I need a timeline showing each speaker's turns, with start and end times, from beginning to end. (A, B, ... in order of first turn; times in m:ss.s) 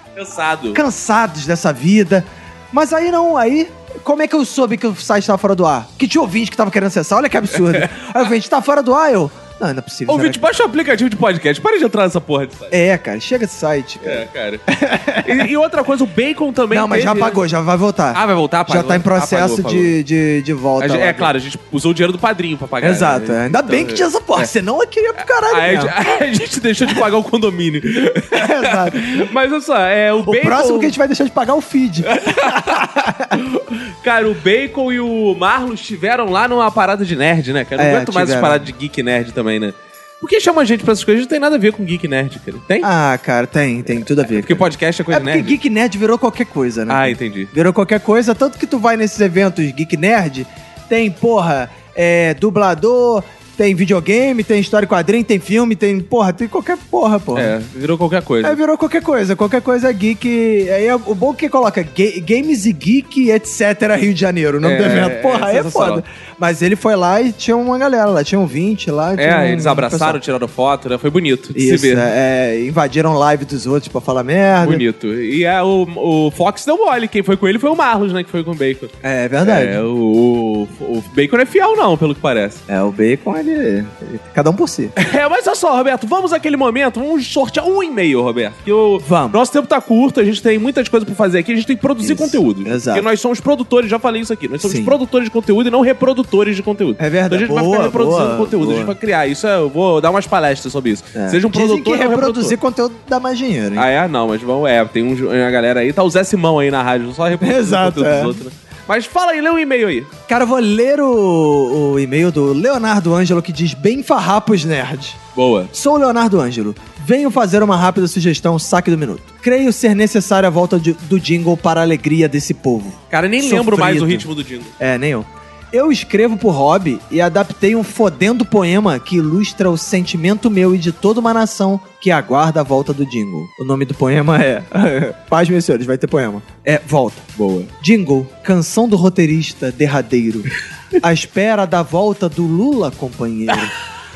0:00.2-0:00.8 A
0:00.7-0:10.4 B
0:10.1-0:12.7 A
0:12.7-0:15.5 B
0:14.0-0:14.6 A
0:15.2-0:17.4 A
0:16.7-0:21.3 B
0:18.1-0:19.9 A
0:20.8-0:24.5 A
0:22.8-0:25.9 B
0:25.2-0:30.9 A
0:28.3-0:29.2 B
0:30.2-0:33.4 B
0:32.1-0:42.9 A
0:37.8-0:38.6 B
0:42.8-0:57.6 B
0:44.3-0:45.6 A
0:46.9-0:47.5 A
0:57.4-0:58.6 A
0:58.4-1:10.2 B
1:04.6-1:06.0 A
1:09.2-1:12.1 A
1:11.6-1:14.8 B
1:14.6-1:18.9 A
1:19.0-1:19.8 B
1:19.4-1:22.6 A
1:22.7-1:24.9 B
1:25.0-1:42.6 A
1:29.0-1:29.4 B
1:32.0-1:33.1 B
1:34.6-1:35.0 B
1:37.0-1:38.9 B
1:41.2-1:43.9 B
1:43.7-1:50.1 A
1:47.4-1:48.4 B
1:50.3-1:55.2 B
1:55.4-1:55.7 A
1:55.7-2:04.3 B
2:03.1-2:04.7 A
2:04.8-2:20.5 B
2:17.4-2:17.7 A
2:21.0-2:23.7 B